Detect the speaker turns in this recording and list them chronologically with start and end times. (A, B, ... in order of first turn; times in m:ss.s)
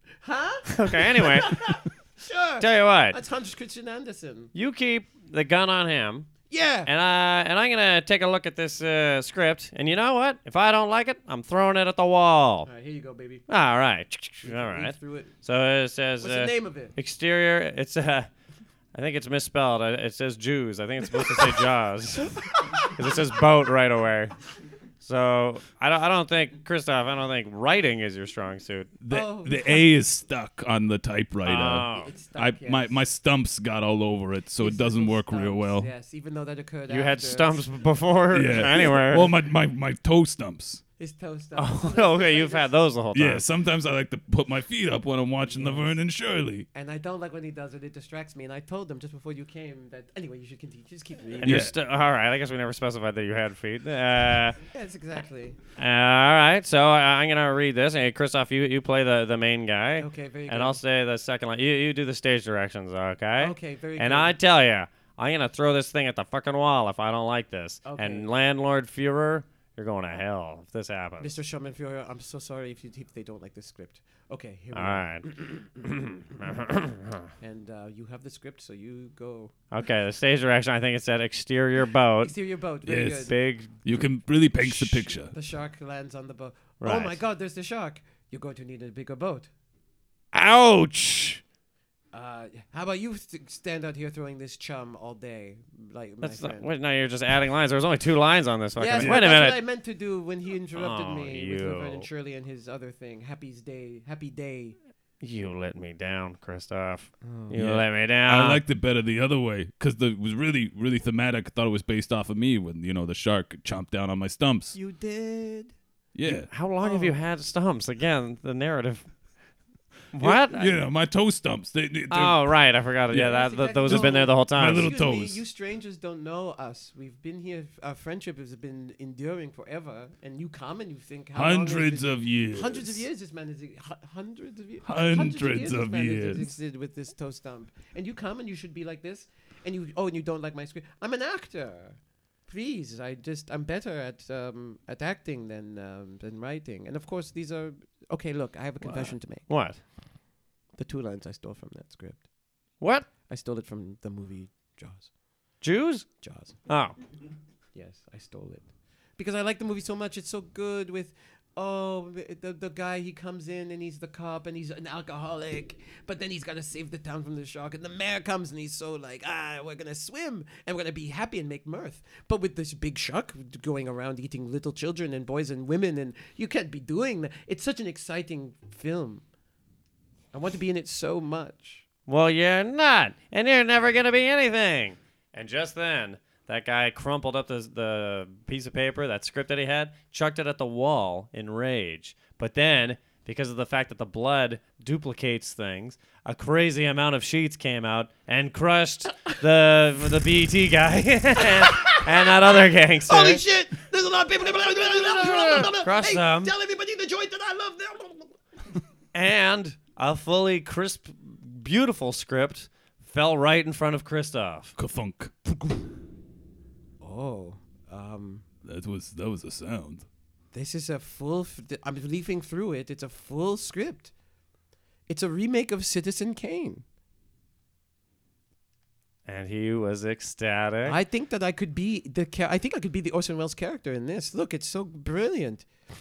0:00.2-0:04.5 A
0:00.7-0:01.7 B
0:02.6-0:03.2 B
0:04.5-0:06.3 B
0:06.5-0:06.9 A
0:06.9-0:12.7 B
0:12.7-0:13.4 A
0:13.5-0:18.3 B
0:14.4-0:15.3 A
0:16.2-0:16.9 A
0:18.9-0:24.3 B
0:25.0-0:28.9 B
0:29.0-0:35.9 C
0:29.1-0:29.9 A
0:31.4-0:32.1 B
0:31.9-0:32.9 A
0:34.6-0:37.7 A
0:36.9-0:39.3 B
0:38.3-0:40.8 C
0:41.0-0:42.7 A
0:41.6-0:43.4 B
0:43.1-0:46.7 C
0:45.5-0:46.0 A
0:46.7-0:51.7 A
0:51.3-0:54.6 B
0:51.4-0:51.7 C
0:54.7-0:55.6 A
0:55.8-1:11.3 B
1:00.0-1:00.8 A
1:03.4-1:04.3 A
1:07.9-1:08.3 A
1:11.2-1:15.7 A
1:14.7-1:15.3 B
1:15.9-1:17.3 B
1:17.4-1:19.5 A
1:19.7-1:22.3 B
1:22.2-1:23.3 A
1:22.9-1:25.3 C
1:23.2-1:23.7 B
1:24.6-1:29.5 A
1:26.8-1:27.2 B
1:30.3-1:31.4 B
1:32.1-1:36.7 A
1:36.2-1:39.6 B
1:38.8-1:44.8 A
1:40.8-1:42.1 B
1:45.2-1:48.6 B
1:47.2-1:47.5 A
1:47.5-1:54.8 C
1:54.7-1:55.7 A
1:56.2-1:56.5 C
1:56.3-1:59.1 B
1:56.8-1:57.2 A
2:00.1-2:00.7 B
2:00.2-2:02.4 C
2:02.1-2:04.9 B
2:03.1-2:05.4 C
2:03.2-2:29.5 A
2:11.4-2:13.0 C
2:14.8-2:16.5 C
2:28.8-2:29.8 B
2:30.8-2:32.3 A
2:32.8-2:33.1 B
2:33.3-2:35.1 A
2:35.6-2:36.1 B
2:36.2-2:36.6 A
2:36.7-2:37.0 B
2:37.7-2:59.2 A
3:00.3-3:01.8 A
3:02.1-3:23.4 B
3:21.7-3:22.0 A
3:23.1-3:28.3 A
3:25.0-3:26.5 B
3:29.1-3:34.8 B
3:34.8-3:35.8 C
3:37.0-3:38.4 A
3:38.6-3:40.1 C
3:40.5-3:44.1 A
3:45.1-3:46.8 A
3:49.3-3:51.0 B
3:50.8-3:55.7 A